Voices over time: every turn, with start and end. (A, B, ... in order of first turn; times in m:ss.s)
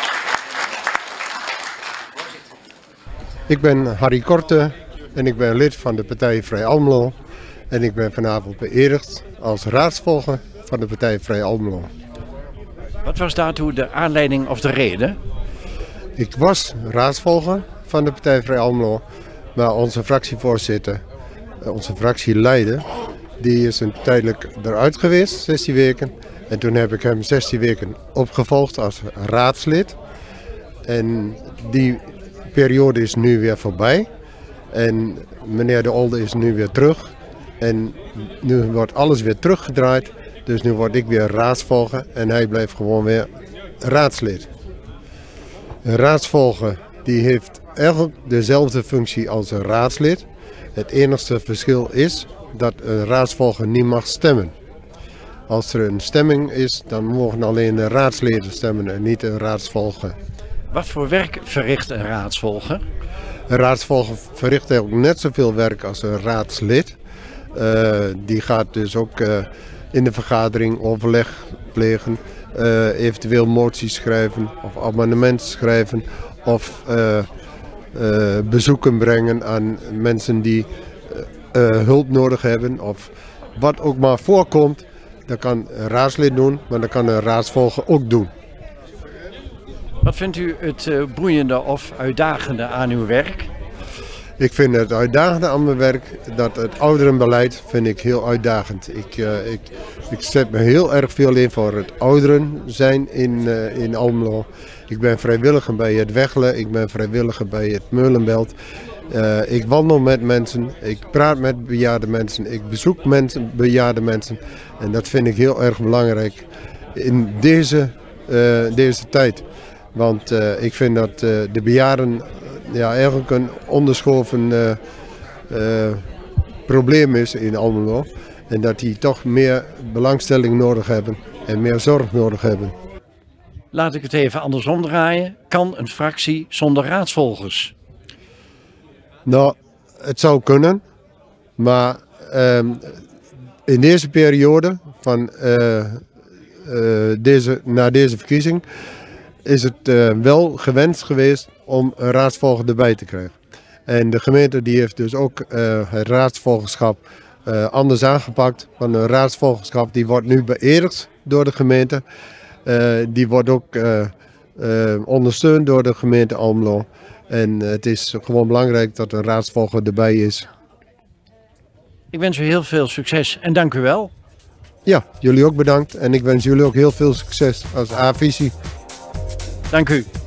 0:03.5-0:07.1 A
0:07.7-0:11.9 A
0:13.0-0:15.2 B
0:16.2-0:19.0 A
0:19.5-0:21.0 A
0:21.6-0:22.8 A
0:23.4-0:30.0 A
0:30.8-0:34.1 A
0:34.7-0:43.3 A
0:43.8-0:44.5 A
0:45.8-0:54.5 A
0:55.5-1:00.2 A
1:00.7-1:02.8 B
1:03.5-1:07.0 A
1:07.5-1:17.3 A
1:17.9-1:28.3 A
1:30.0-1:33.5 B
1:34.4-1:48.5 A
1:49.1-2:04.8 A
2:05.5-2:06.0 A
2:06.7-2:12.7 A
2:13.7-2:17.7 B
2:19.2-2:20.8 A
2:21.6-2:23.0 A
2:23.6-2:26.0 A
2:26.6-2:28.6 A
2:29.4-2:33.3 A
2:33.9-2:42.0 A
2:42.6-2:50.5 A
2:52.1-2:54.1 B
2:54.8-2:58.5 A
2:59.7-3:00.1 B